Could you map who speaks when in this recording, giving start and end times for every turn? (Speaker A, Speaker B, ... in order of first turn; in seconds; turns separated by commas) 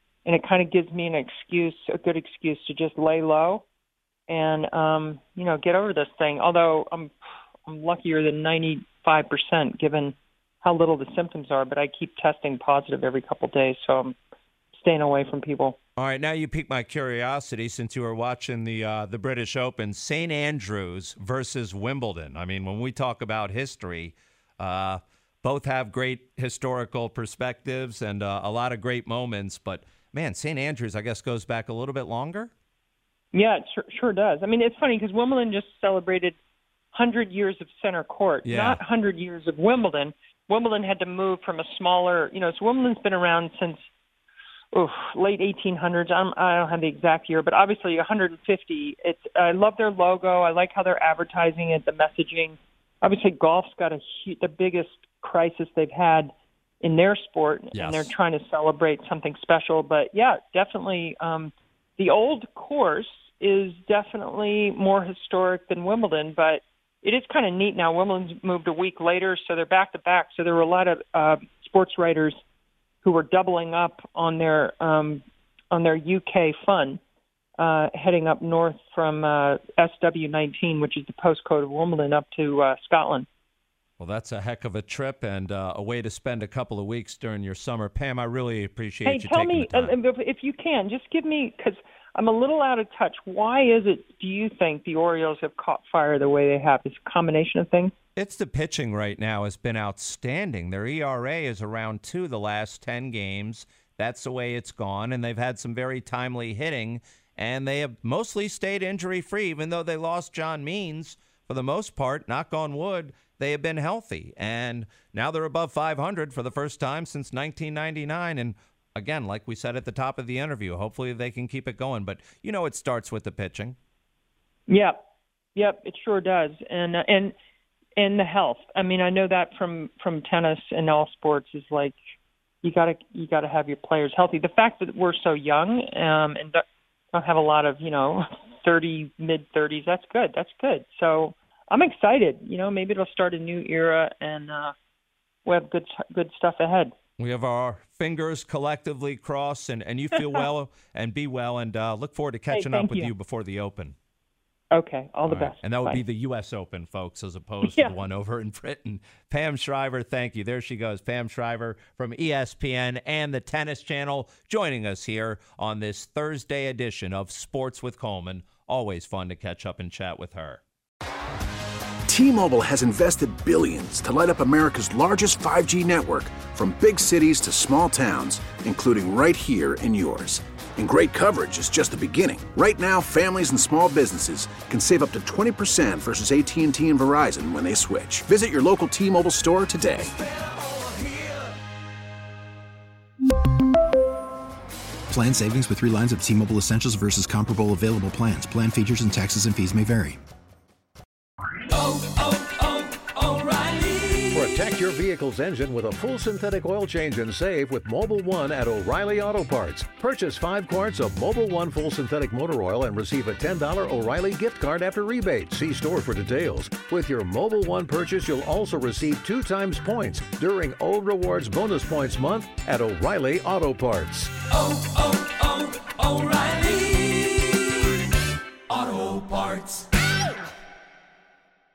Speaker A: 0.3-3.6, Speaker A: 4.3-7.1, Speaker A: 7.7-14.2, Speaker A: 14.7-15.8, Speaker B: 16.0-32.5, Speaker A: 33.3-36.4, Speaker A: 36.9-43.8, Speaker B: 38.5-38.8, Speaker A: 44.7-72.4, Speaker B: 57.7-58.1, Speaker A: 73.0-77.0, Speaker A: 77.6-83.3, Speaker B: 84.0-89.9, Speaker A: 89.0-97.9, Speaker B: 98.2-123.8, Speaker A: 124.7-125.0, Speaker A: 125.5-127.3, Speaker A: 128.0-132.0, Speaker A: 132.6-144.7, Speaker A: 145.5-146.9, Speaker B: 147.2-153.9, Speaker A: 152.5-153.1, Speaker A: 154.7-156.0, Speaker B: 155.3-170.6, Speaker A: 157.6-157.9, Speaker C: 172.1-190.1, Speaker D: 195.1-200.2, Speaker B: 202.0-203.5, Speaker E: 203.6-204.2, Speaker F: 204.3-224.4, Speaker E: 224.6-227.7, Speaker E: 228.7-229.8